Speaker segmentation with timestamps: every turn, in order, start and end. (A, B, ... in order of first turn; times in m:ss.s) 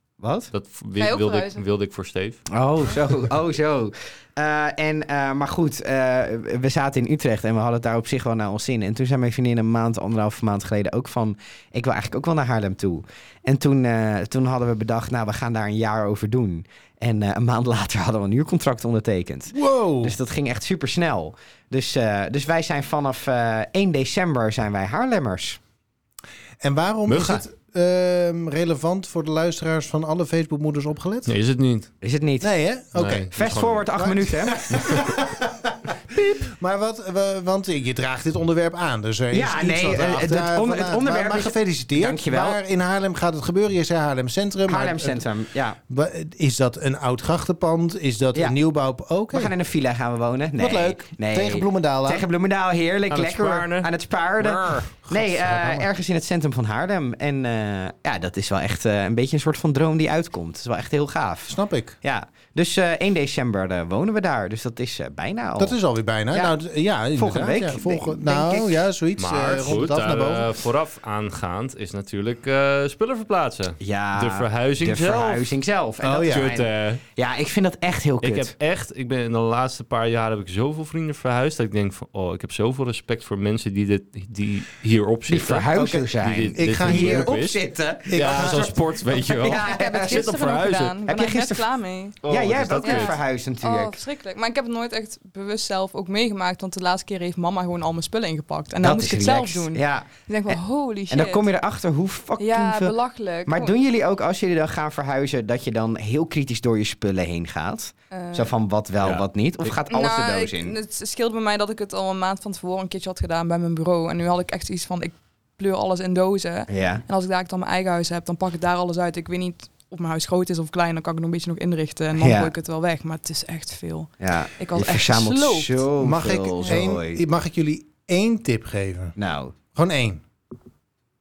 0:00.2-0:00.5 A
0:00.5-0:02.4 B
0:01.0-0:01.6 C
0:02.5-0:25.6 A
0:19.5-0:20.1 D
0:26.6-0:31.3 D
0:27.1-0:27.4 B
0:31.2-0:31.9 B
0:32.0-0:32.5 A
0:32.4-0:33.3 D
0:33.0-0:33.9 B
0:33.3-0:34.8 A
0:34.0-0:45.2 D
0:39.3-0:42.6 A
0:44.7-0:45.8 A
0:45.9-0:49.5 D
0:49.3-1:05.8 A
0:50.6-0:52.2 D
0:53.1-0:54.9 B
0:55.1-0:55.9 D
1:01.5-1:01.9 D
1:05.6-1:10.5 D
1:06.3-1:06.6 A
1:07.1-1:08.8 A
1:09.2-1:15.6 B
1:13.8-1:18.5 A
1:16.0-1:16.5 D
1:16.2-1:17.0 B
1:18.2-1:31.0 B
1:25.3-1:30.3 A
1:26.6-1:27.3 D
1:28.1-1:28.7 D
1:29.6-1:32.2 C
1:31.1-1:31.7 A
1:32.2-1:33.2 B
1:32.2-1:34.0 A
1:32.8-1:41.5 C
1:38.8-1:50.8 A
1:42.4-1:43.8 C
1:48.1-1:48.5 C
1:49.9-2:05.9 C
1:56.7-1:57.0 A
2:02.1-2:02.5 A
2:04.2-2:07.2 A
2:06.0-2:09.2 D
2:09.2-2:09.6 A
2:09.7-2:10.2 D